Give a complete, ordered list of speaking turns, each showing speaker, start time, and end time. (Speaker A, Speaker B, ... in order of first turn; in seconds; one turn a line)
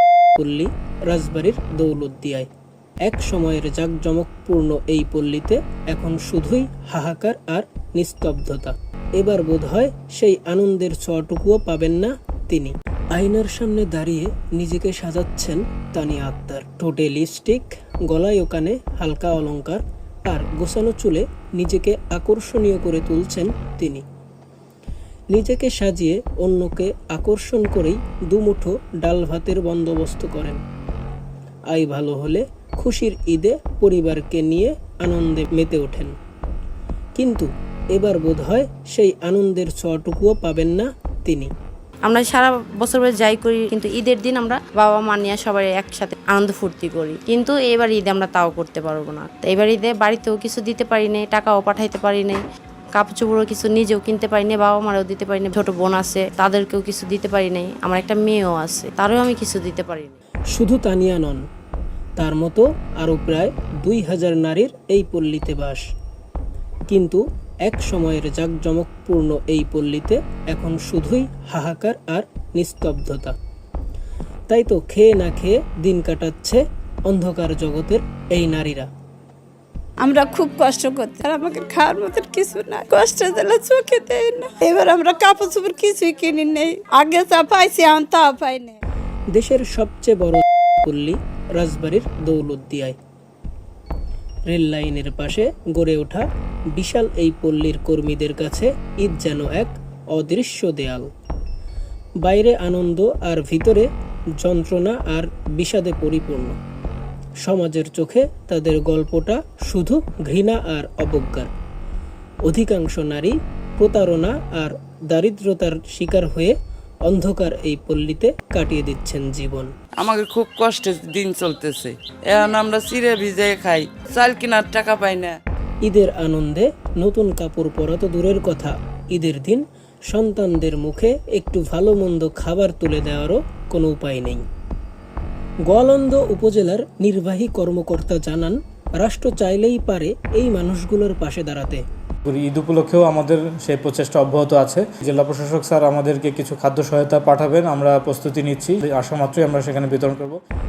Speaker A: 0.3-2.5
Speaker A: 3.1-24.0
Speaker A: 25.3-30.6
Speaker A: 31.7-36.2
Speaker A: 37.2-41.5
Speaker B: 42.1-52.4
Speaker B: 53.0-60.1
Speaker A: 60.5-61.5
Speaker A: 62.2-65.8
Speaker A: 66.9-73.3
Speaker A: 74.5-78.9
Speaker C: 80.0-88.8
Speaker A: 89.3-93.0
Speaker A: 94.5-101.1
Speaker A: 102.2-106.6
Speaker A: 107.4-111.5
Speaker A: 112.5-119.7
Speaker D: 120.0-125.4
Speaker A: 125.9-134.5
Speaker A: 135.7-141.8
Speaker E: 142.3-150.4